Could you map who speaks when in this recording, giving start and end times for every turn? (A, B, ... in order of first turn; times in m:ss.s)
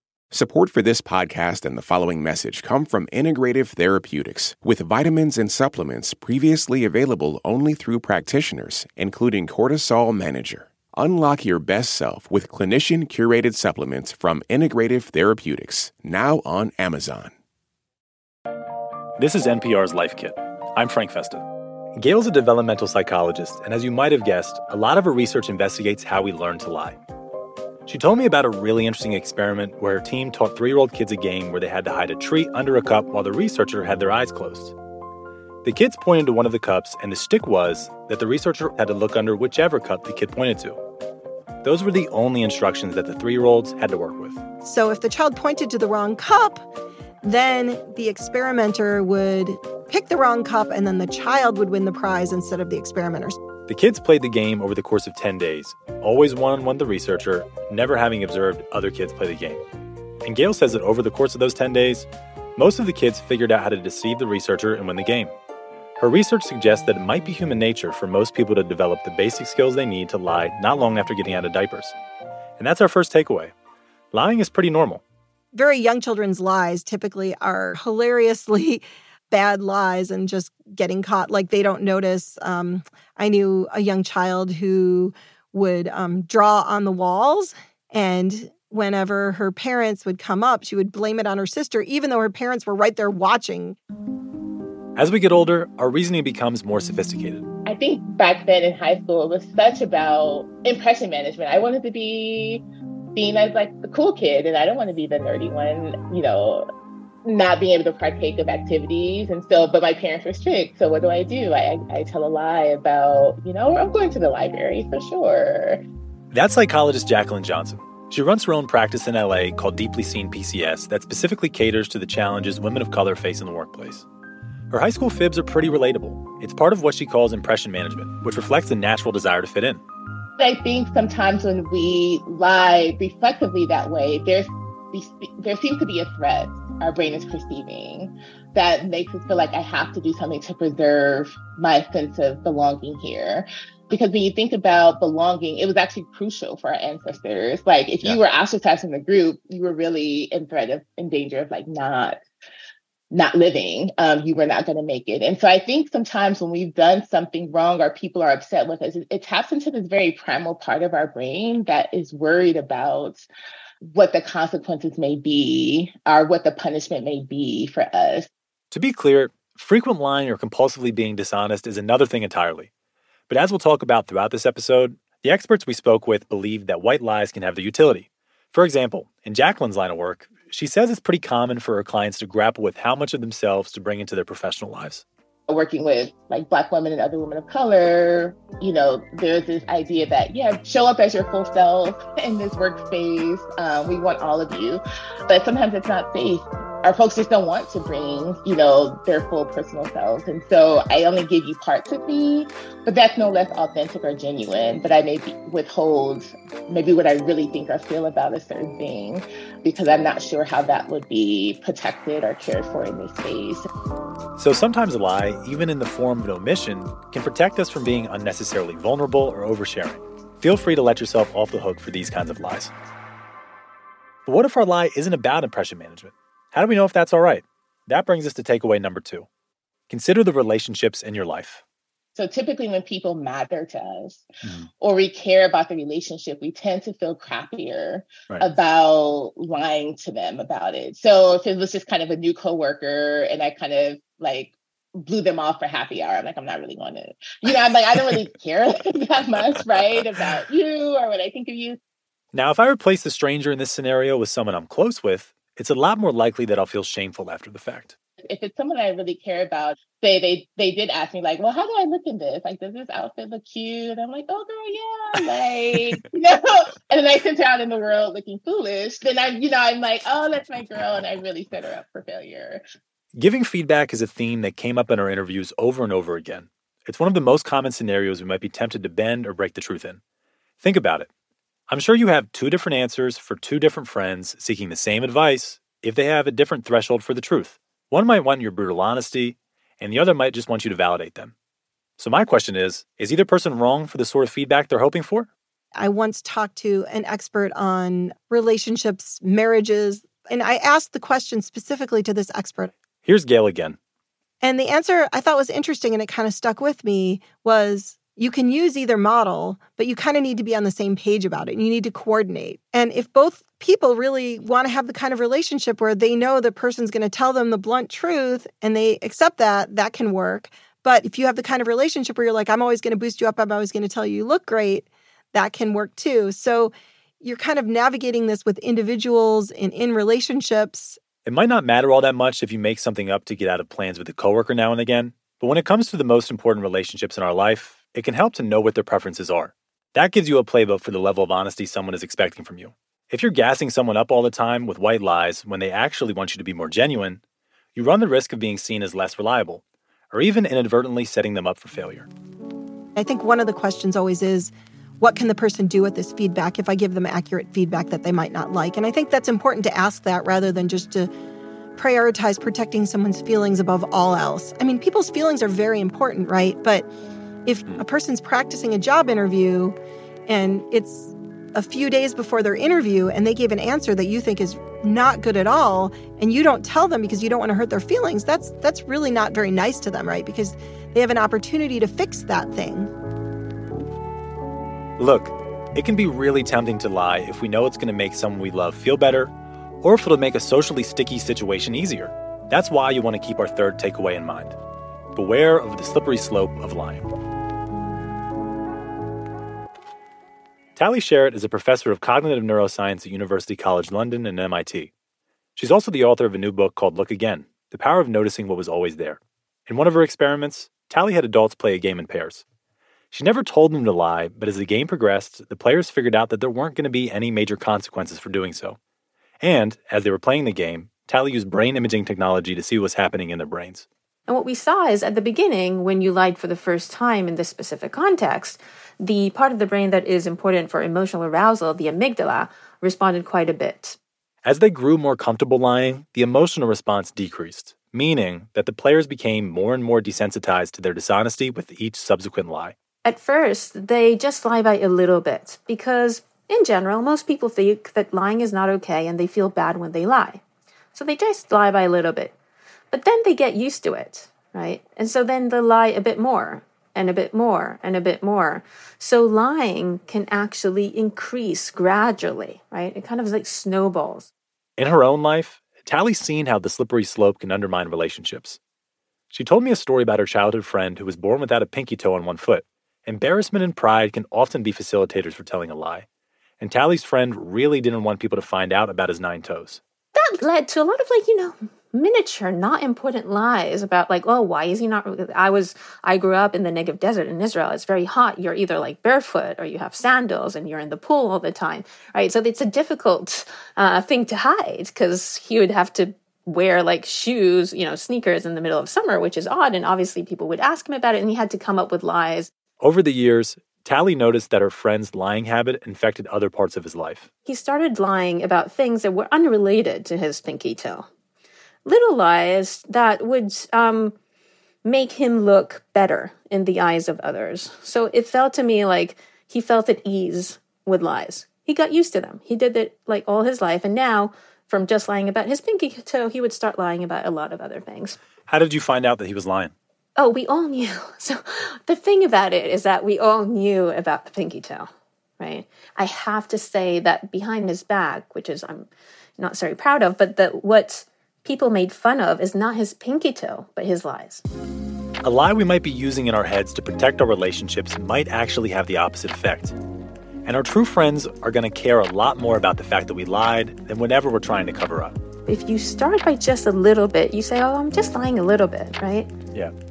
0:00.3-0:17.3 A
0:19.2-0:21.4 B
0:22.0-0:27.0 B
0:27.8-0:34.7 B
0:35.6-0:40.8 B
0:41.6-0:44.4 B
0:44.6-0:46.6 C
0:47.2-0:53.4 C
0:53.7-0:59.6 B
1:00.2-1:05.3 B
1:06.0-1:11.9 B
1:12.6-1:13.5 B
1:14.1-1:15.0 B
1:15.5-1:33.8 C
1:35.0-1:37.4 B
1:37.6-1:42.6 D
1:43.2-1:46.6 D
1:47.2-1:55.8 D
1:56.3-2:04.0 B
2:04.7-2:09.8 B
2:10.4-2:32.2 D
2:33.1-2:43.3 D
2:43.8-2:48.3 D
2:48.7-2:52.7 B
2:53.3-3:05.0 B
3:05.5-3:33.6 D
3:34.4-3:42.7 B
3:44.2-3:49.3 B
3:49.9-3:51.6 B
3:52.2-3:54.2 D
3:54.8-4:11.8 D
4:12.3-4:17.9 B
4:18.2-4:32.6 D
4:33.1-4:40.0 B
4:40.6-4:41.1 B
4:41.7-4:51.3 B
4:52.0-4:55.3 B
4:55.7-5:02.7 C
5:03.0-5:03.8 B
5:04.4-5:31.0 C
5:31.2-5:47.2 B
5:47.8-5:52.1 B
5:53.0-6:01.1 C
6:01.8-6:06.9 C
6:07.4-6:09.8 C
6:10.3-6:22.9 C
6:25.0-6:34.6 B
6:35.1-6:37.1 B
6:40.8-6:44.9 B
6:45.6-6:52.4 B
6:53.1-6:58.8 B
6:59.4-7:03.9 B
7:04.3-7:14.0 E
7:14.4-7:22.8 B
7:23.0-7:30.4 E
7:30.9-7:32.3 E
7:32.9-7:44.3 E
7:44.8-7:48.6 B
7:49.3-7:56.0 B
7:56.6-7:59.8 B
8:00.2-8:22.5 E
8:22.8-8:27.3 B
8:27.4-8:31.1 E
8:31.8-8:34.1 E
8:34.8-8:48.2 E
8:48.5-8:49.7 B
8:50.2-8:54.9 E
8:55.4-9:04.4 E
9:05.2-9:09.7 B
9:10.4-9:15.1 B
9:15.4-9:19.3 E